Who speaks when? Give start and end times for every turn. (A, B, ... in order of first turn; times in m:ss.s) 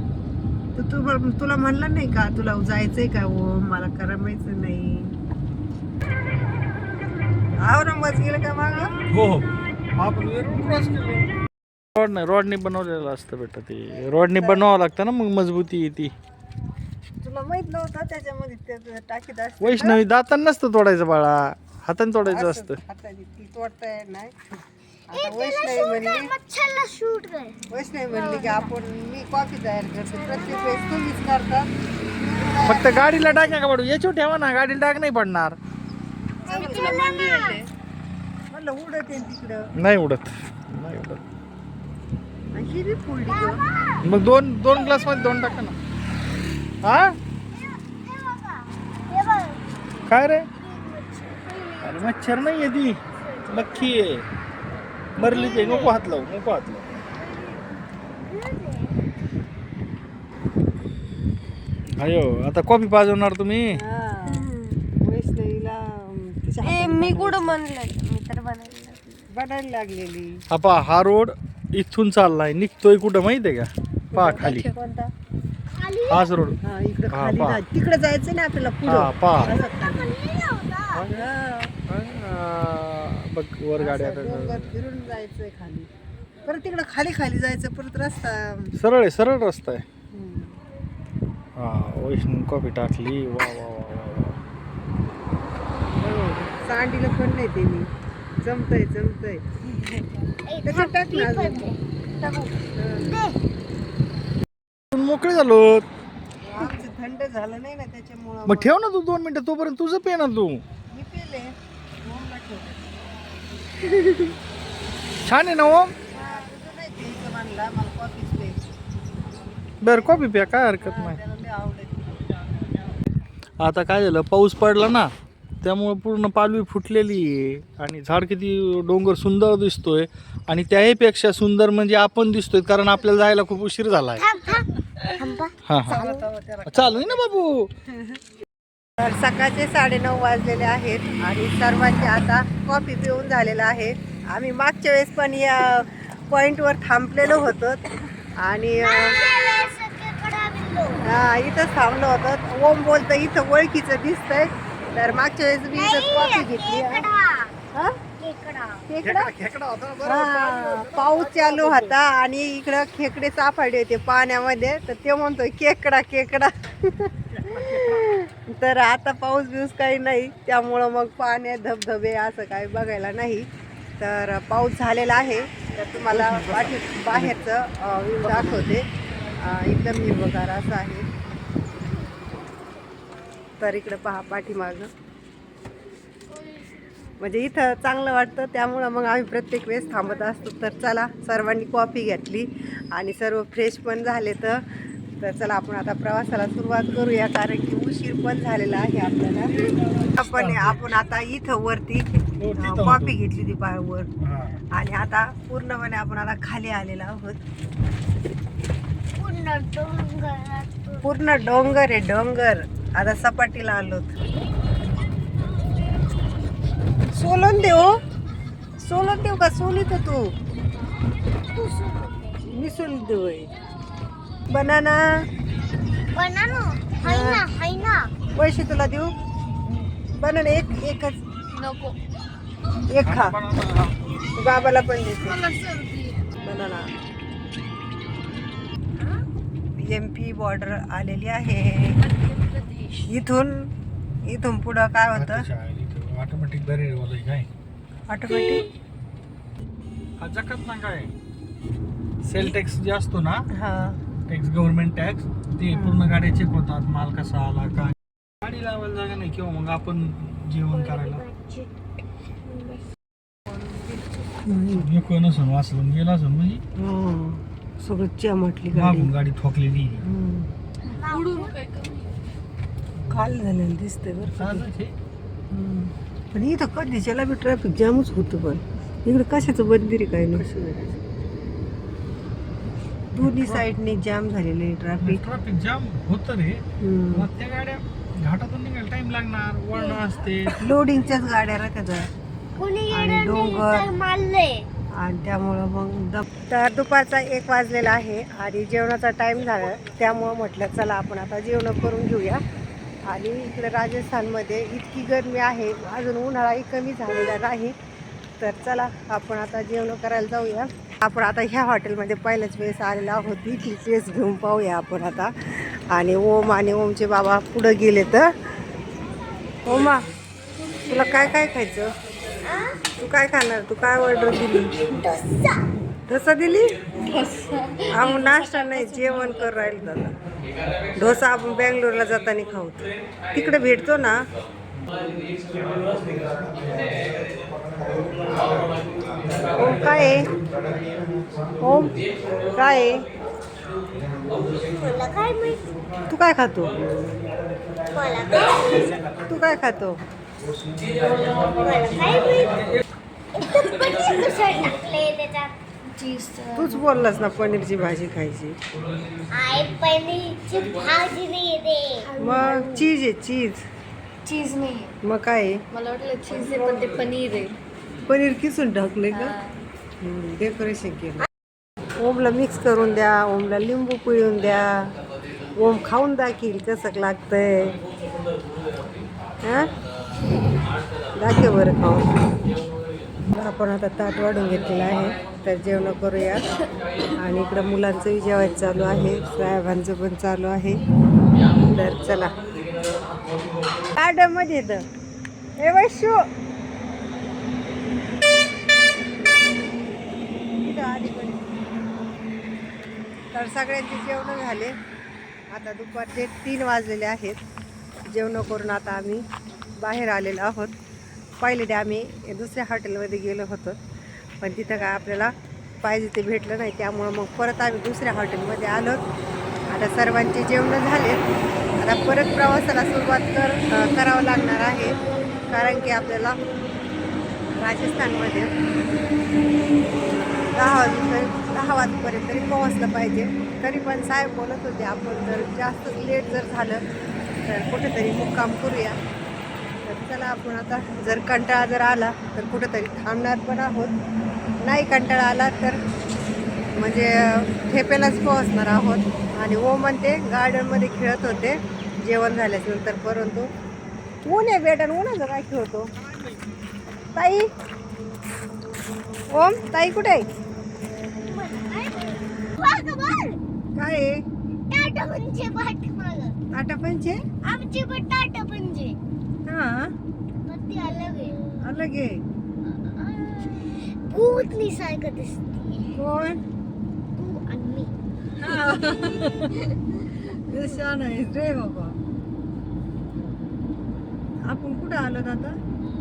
0:00.8-0:05.1 A
0:07.6-0:08.9 A
0:09.1-0:11.3 B
0:12.0-0:16.1 B
0:14.3-0:14.7 A
0:17.2-0:20.0 A
0:19.6-0:22.8 B
0:22.2-0:24.3 A
0:25.1-0:26.3 A
0:25.1-0:27.6 C
0:27.7-0:33.6 A
0:28.1-0:28.7 C
0:30.1-0:30.9 C
0:32.6-0:35.6 B
0:36.4-0:37.2 A
0:36.5-0:37.7 C
0:36.5-0:37.6 D
0:38.5-0:39.7 A
0:39.8-0:41.2 B
0:42.5-0:43.6 A
0:43.3-0:44.1 C
0:44.0-0:45.8 B
0:44.7-0:45.6 C
0:46.8-0:47.2 B
0:47.5-0:49.8 C
0:50.1-0:50.5 B
0:50.5-0:54.0 C
0:51.8-0:54.3 B
0:55.2-0:56.1 C
0:55.2-0:56.9 B
0:57.3-0:57.5 C
0:58.2-0:59.0 C
1:02.0-1:03.8 B
1:03.7-1:04.5 A
1:05.0-1:07.6 A
1:06.8-1:09.1 C
1:06.9-1:07.9 D
1:09.3-1:10.4 A
1:10.5-1:14.7 B
1:14.1-1:15.1 A
1:15.7-1:16.3 C
1:16.1-1:16.6 B
1:16.6-1:20.1 A
1:17.1-1:17.6 B
1:18.9-1:19.5 B
1:19.4-1:21.1 C
1:20.9-1:21.3 B
1:21.1-1:21.8 A
1:21.9-1:24.7 B
1:23.8-1:25.9 A
1:26.5-1:28.7 A
1:28.8-1:29.8 B
1:30.1-1:30.6 A
1:31.6-1:34.4 B
1:36.0-1:37.9 A
1:38.4-1:39.6 A
1:40.5-1:41.8 C
1:40.6-1:43.1 A
1:43.0-1:43.4 C
1:44.9-1:45.9 B
1:46.4-1:48.8 A
1:48.5-1:50.6 B
1:50.9-1:53.0 A
1:55.2-1:55.9 B
1:56.1-1:58.6 A
1:59.8-2:01.2 B
1:59.9-2:00.2 A
2:00.8-2:02.3 A
2:03.6-2:05.1 B
2:05.6-2:14.2 B
2:14.2-2:16.2 C
2:15.7-2:16.0 B
2:15.8-2:18.2 A
2:16.7-2:17.7 B
2:19.0-2:27.9 A
2:28.4-2:29.2 A
2:28.8-2:31.0 C
2:31.0-2:37.1 A
2:35.7-2:37.5 C
2:38.2-2:38.9 C
2:38.9-2:39.3 A
2:39.0-2:42.0 B
2:40.0-2:53.5 A
2:47.4-2:48.0 B
2:54.0-3:01.1 A
2:56.1-2:57.4 B
3:03.6-3:04.9 A
3:07.2-3:14.6 A
3:15.2-3:24.1 A
3:19.4-3:20.8 B
3:22.4-3:23.1 B
3:24.2-3:24.6 B
3:24.7-3:27.4 A
3:29.1-3:31.8 C
3:31.0-3:34.1 A
3:37.1-3:38.0 A
3:38.8-3:40.3 A
3:41.5-3:42.4 C
3:42.5-3:43.5 A
3:44.5-3:45.2 A
3:46.1-3:48.1 C
3:47.0-3:47.4 A
3:48.4-3:49.1 A
3:49.7-3:51.2 A
3:51.6-3:52.0 D
3:52.9-3:53.4 A
3:53.0-3:54.0 B
3:54.4-3:55.5 A
3:55.3-3:56.3 D
3:56.4-3:56.9 A
3:59.8-4:02.1 A
4:02.1-4:03.1 D
4:03.0-4:03.7 A
4:04.2-4:05.5 A
4:05.2-4:07.5 B
4:08.1-4:08.7 A
4:10.2-4:11.1 B
4:12.2-4:13.5 B
4:13.5-4:14.0 A
4:14.3-4:21.2 B
4:15.7-4:16.0 A
4:20.7-4:21.7 C
4:22.4-4:22.8 C
4:24.4-4:24.9 A
4:24.7-4:26.6 B
4:26.8-4:29.1 A
4:28.7-4:30.0 B
4:30.0-4:30.5 A
4:30.9-4:31.6 C
4:31.0-4:32.0 D
4:33.0-4:33.3 B
4:33.1-4:34.7 A
4:34.3-4:35.0 B
4:35.5-4:40.5 A
4:40.4-4:40.9 B
4:43.1-4:45.2 A
4:43.2-4:43.7 B
4:45.0-4:46.6 B
4:46.8-4:47.3 A
4:47.1-4:50.6 B
4:49.8-4:50.2 C
4:50.6-4:52.1 A
4:52.6-4:54.7 C
4:52.9-4:53.9 A
4:54.9-5:02.4 A
5:03.1-5:07.8 A
5:08.4-5:18.3 A
5:19.6-5:20.1 A
5:20.9-5:21.9 A
5:22.4-5:22.8 C
5:23.0-5:24.8 A
5:24.9-5:25.7 C
5:26.1-5:26.8 A
5:27.2-5:29.0 D
5:27.9-5:30.1 A
5:31.0-5:34.2 A
5:39.6-5:40.3 A
5:41.6-5:43.0 A
5:44.6-5:45.7 C
5:46.1-5:46.7 A
5:47.9-5:49.0 C
5:49.3-5:50.0 A
5:51.5-5:52.7 C
5:53.3-5:55.6 C
5:55.9-5:56.8 D
5:56.6-5:58.6 A
5:59.3-6:02.2 C
6:02.1-6:02.8 D
6:02.2-6:03.6 A
6:04.3-6:04.9 D
6:05.0-6:05.6 A
6:05.7-6:07.6 D
6:08.1-6:09.4 A
6:09.1-6:09.6 D
6:10.0-6:11.3 A
6:12.0-6:14.9 A
6:15.6-6:17.8 A
6:19.4-6:19.7 A
6:21.2-6:22.1 A
6:23.3-6:26.5 A
6:27.2-6:30.8 A
6:31.6-6:32.3 A
6:33.9-6:34.8 A
6:35.6-6:36.3 A
6:40.6-6:41.7 A
6:43.3-6:44.7 A
6:45.5-6:47.4 A
6:48.1-6:49.2 A
6:49.8-6:50.8 A
6:51.4-6:53.8 A
6:54.4-6:59.0 A
6:59.7-7:01.3 A
7:01.8-7:05.0 A
7:05.5-7:06.4 A
7:07.6-7:08.5 A
7:10.4-7:16.8 A
7:17.5-7:19.0 A
7:19.9-7:24.0 A
7:24.6-7:25.8 A
7:26.7-7:33.5 A
7:34.2-7:35.9 A
7:36.0-7:36.4 B
7:37.2-7:37.5 A
7:39.3-7:40.3 A
7:41.2-7:43.4 C
7:43.8-7:44.2 A
7:44.7-7:46.4 C
7:46.5-7:47.2 A
7:47.4-7:49.0 C
7:49.5-7:49.9 A
7:50.4-7:51.6 C
7:51.6-7:52.2 A
7:52.6-7:56.0 C
7:56.0-7:56.4 A
7:57.2-7:57.9 C
7:58.4-8:02.0 A
8:04.5-8:05.6 A